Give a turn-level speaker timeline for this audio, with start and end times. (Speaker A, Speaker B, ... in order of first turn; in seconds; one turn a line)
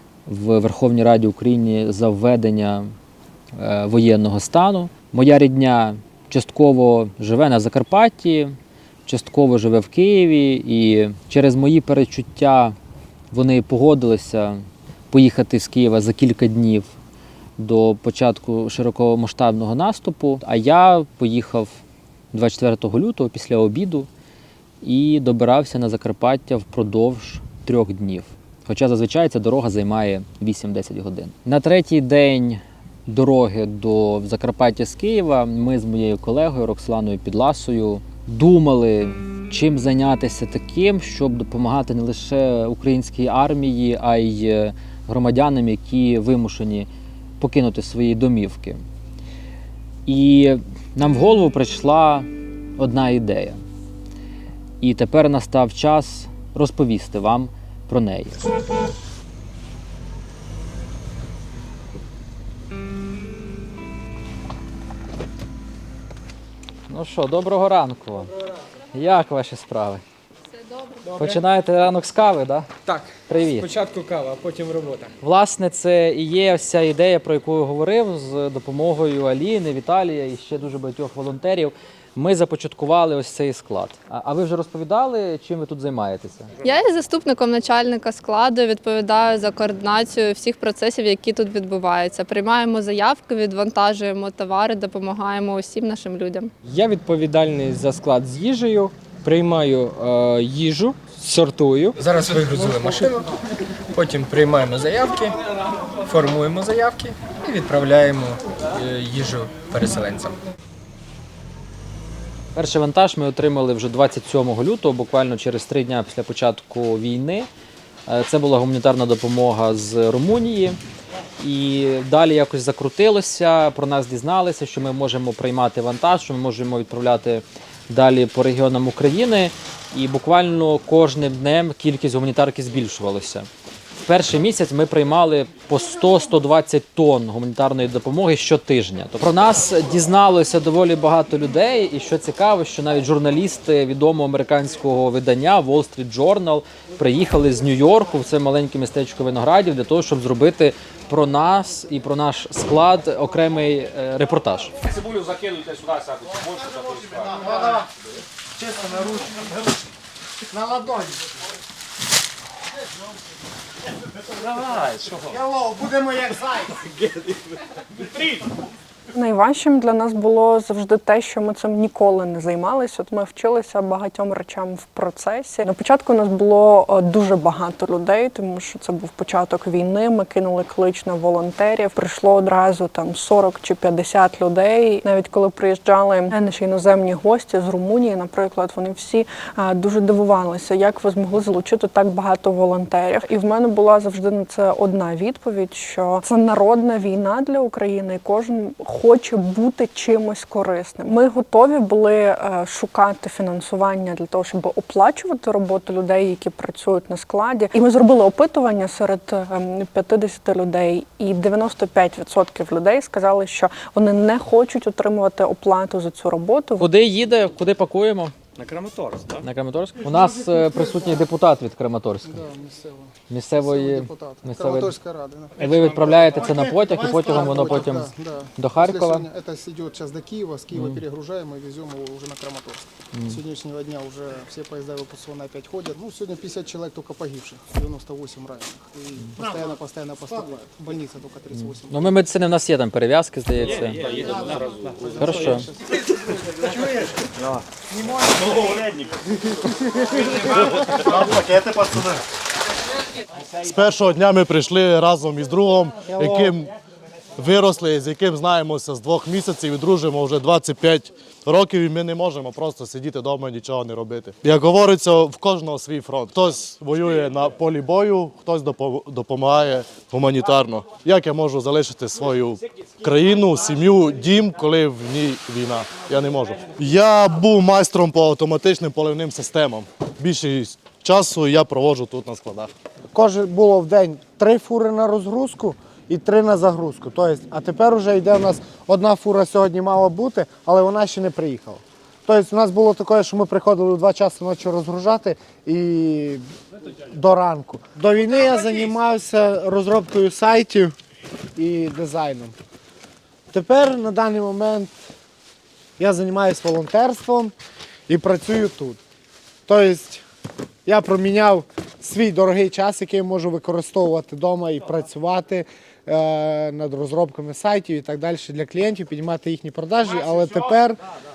Speaker A: 0.2-2.9
Speaker A: 3.5-12.8
Speaker A: 13.3-16.9
Speaker A: 17.6-21.8
Speaker A: 22.3-24.1
Speaker A: 24.8-46.9
Speaker A: 47.4-48.8
Speaker A: 50.0-53.6
Speaker A: 54.8-58.4
Speaker A: 66.9-68.3
Speaker A: 68.9-70.0
Speaker B: 71.1-71.4
Speaker A: 71.2-72.7
Speaker B: 72.8-75.1
Speaker A: 73.3-73.7
Speaker A: 75.2-86.5
Speaker C: 86.6-96.5
Speaker B: 96.6-103.3
Speaker B: 103.9-105.4
Speaker B: 105.9-110.4
Speaker A: 112.5-117.5
Speaker A: 118.1-120.8
Speaker A: 121.4-133.5
Speaker A: 134.0-154.7
Speaker D: 154.8-157.8
Speaker E: 157.3-157.9
Speaker E: 158.6-159.5
Speaker E: 160.5-161.2
Speaker D: 164.7-165.3
Speaker E: 165.2-166.8
Speaker F: 169.1-216.9
Speaker A: 216.8-218.3
Speaker D: 218.6-219.4
Speaker A: 219.4-222.4
Speaker G: 222.2-225.7
Speaker A: 223.3-224.9
Speaker A: 225.6-229.3
Speaker G: 226.3-242.3
Speaker E: 226.4-227.9
Speaker A: 230.7-231.0
Speaker A: 233.1-233.4
Speaker E: 239.4-239.7
Speaker E: 240.2-240.9
Speaker A: 241.6-244.2
Speaker D: 243.6-245.7
Speaker G: 244.2-245.9
Speaker A: 245.2-245.7
Speaker E: 247.9-248.8
Speaker D: 248.6-248.8
Speaker E: 250.1-251.0
Speaker H: 251.1-252.1
Speaker H: 253.6-256.7
Speaker E: 256.1-256.6
Speaker H: 257.4-282.7
Speaker E: 283.1-296.5
Speaker E: 297.1-300.9
Speaker E: 301.6-302.5
Speaker E: 303.5-304.9
Speaker E: 306.0-307.5
Speaker E: 308.1-309.0
Speaker E: 309.6-310.2
Speaker E: 310.9-321.0